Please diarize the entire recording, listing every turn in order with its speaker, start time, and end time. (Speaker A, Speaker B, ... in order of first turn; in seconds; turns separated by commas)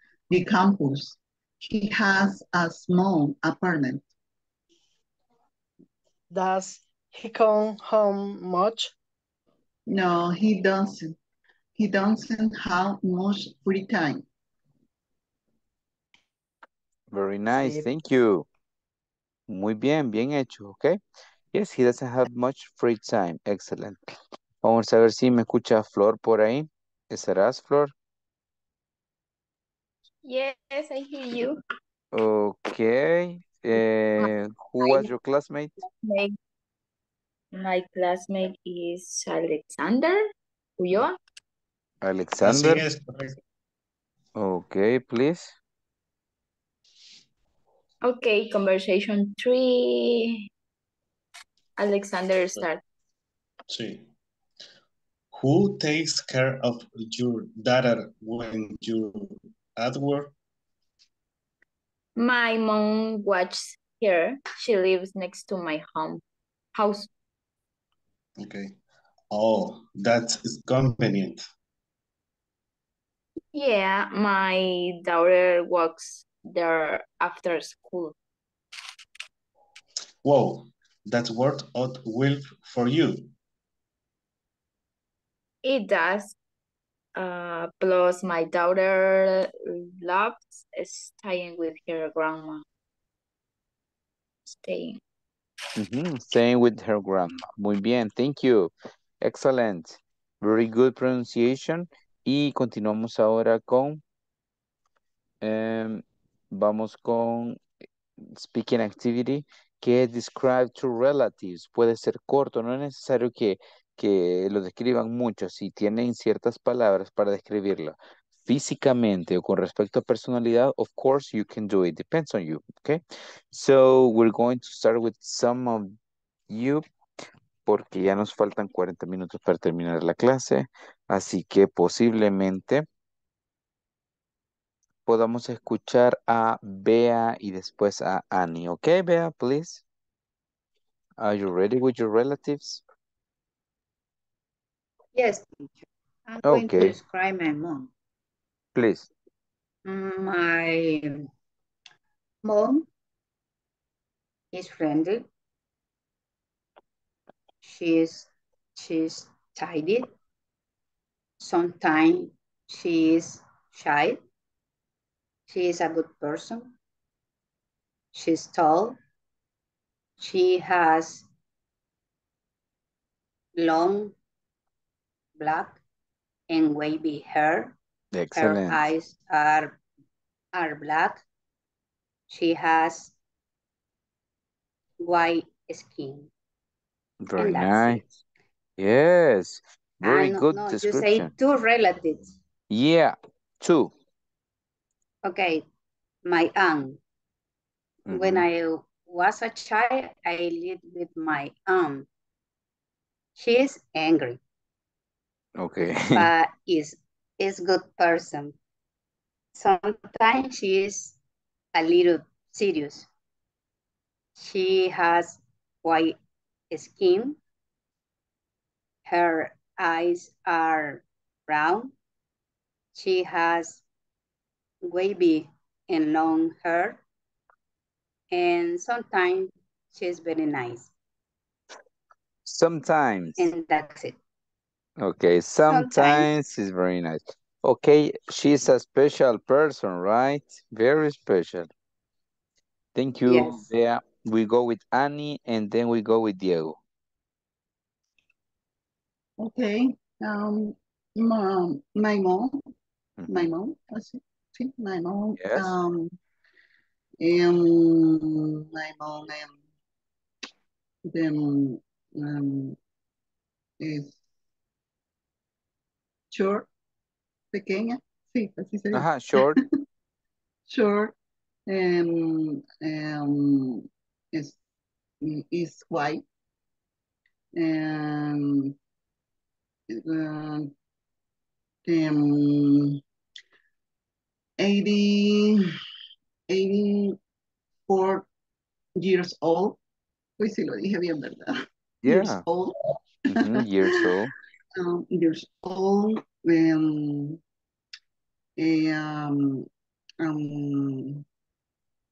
Speaker A: 0.3-4.1, Speaker B: 6.3-8.9, Speaker A: 9.9-11.1, Speaker A: 11.8-14.2, Speaker C: 17.1-18.5, Speaker C: 19.5-21.0, Speaker C: 21.5-24.0, Speaker C: 24.6-27.9, Speaker D: 30.2-31.6, Speaker C: 32.1-35.7, Speaker D: 34.8-35.1, Speaker D: 35.8-36.4, Speaker D: 37.5-41.2, Speaker C: 42.0-42.8, Speaker E: 42.4-43.4, Speaker C: 44.4-45.5, Speaker D: 48.0-50.5, Speaker D: 51.8-52.8, Speaker E: 53.7-54.1, Speaker E: 55.3-60.3, Speaker D: 62.1-66.2, Speaker D: 66.7-67.1, Speaker E: 68.4-68.8, Speaker E: 69.3-71.4, Speaker D: 73.5-78.1, Speaker E: 80.2-83.3, Speaker D: 85.6-86.3, Speaker D: 87.2-92.6, Speaker D: 94.5-95.0, Speaker C: 95.8-104.0, Speaker C: 105.4-107.6, Speaker C: 108.3-126.0, Speaker C: 126.5-126.8, Speaker C: 127.6-132.8, Speaker C: 135.1-139.8, Speaker C: 141.2-142.8, Speaker F: 145.1-147.9, Speaker C: 146.4-146.9, Speaker C: 148.7-149.1, Speaker F: 149.8-151.3, Speaker F: 152.4-152.9, Speaker F: 154.5-155.3, Speaker F: 157.6-160.1, Speaker F: 161.4-164.2, Speaker F: 165.5-166.7, Speaker F: 168.1-169.0, Speaker F: 170.2-171.3, Speaker F: 173.6-174.2, Speaker F: 175.4-175.8, Speaker F: 176.5-177.8, Speaker C: 178.1-178.8, Speaker F: 178.3-179.8, Speaker F: 180.5-181.2, Speaker F: 182.3-183.1, Speaker F: 185.0-186.3, Speaker C: 187.2-188.0, Speaker F: 187.4-188.1, Speaker C: 188.8-191.3, Speaker F: 190.0-192.3, Speaker C: 192.7-193.9, Speaker F: 195.2-195.7, Speaker F: 196.2-197.0, Speaker C: 198.1-198.4, Speaker F: 198.1-202.1, Speaker F: 203.3-204.4, Speaker C: 205.6-206.3, Speaker F: 206.1-208.6, Speaker F: 209.5-211.2, Speaker F: 211.7-213.1, Speaker F: 214.4-216.2, Speaker F: 216.7-217.4, Speaker F: 219.1-221.9, Speaker F: 222.9-223.8, Speaker F: 224.8-227.0, Speaker F: 228.3-230.9, Speaker C: 232.4-233.5, Speaker F: 233.4-234.2, Speaker C: 235.0-241.7, Speaker F: 235.7-236.3, Speaker C: 242.9-246.8, Speaker F: 243.2-243.6, Speaker A: 249.4-252.6, Speaker C: 253.2-253.5, Speaker A: 253.3-256.1, Speaker C: 255.4-255.7, Speaker A: 257.2-259.6, Speaker A: 261.1-262.8, Speaker A: 263.8-264.2, Speaker A: 266.3-266.7, Speaker A: 267.5-269.6, Speaker C: 268.9-269.6, Speaker A: 270.7-271.1, Speaker A: 271.7-274.6, Speaker A: 275.2-276.2, Speaker A: 277.6-278.7, Speaker A: 279.9-280.7, Speaker A: 281.9-283.0, Speaker A: 284.6-285.7, Speaker A: 286.5-287.2, Speaker A: 287.9-288.3, Speaker A: 289.0-289.8, Speaker A: 290.4-292.8, Speaker C: 292.0-292.4, Speaker C: 293.3-294.3, Speaker A: 293.3-293.7, Speaker A: 294.8-297.4, Speaker A: 298.6-299.7, Speaker A: 300.2-301.2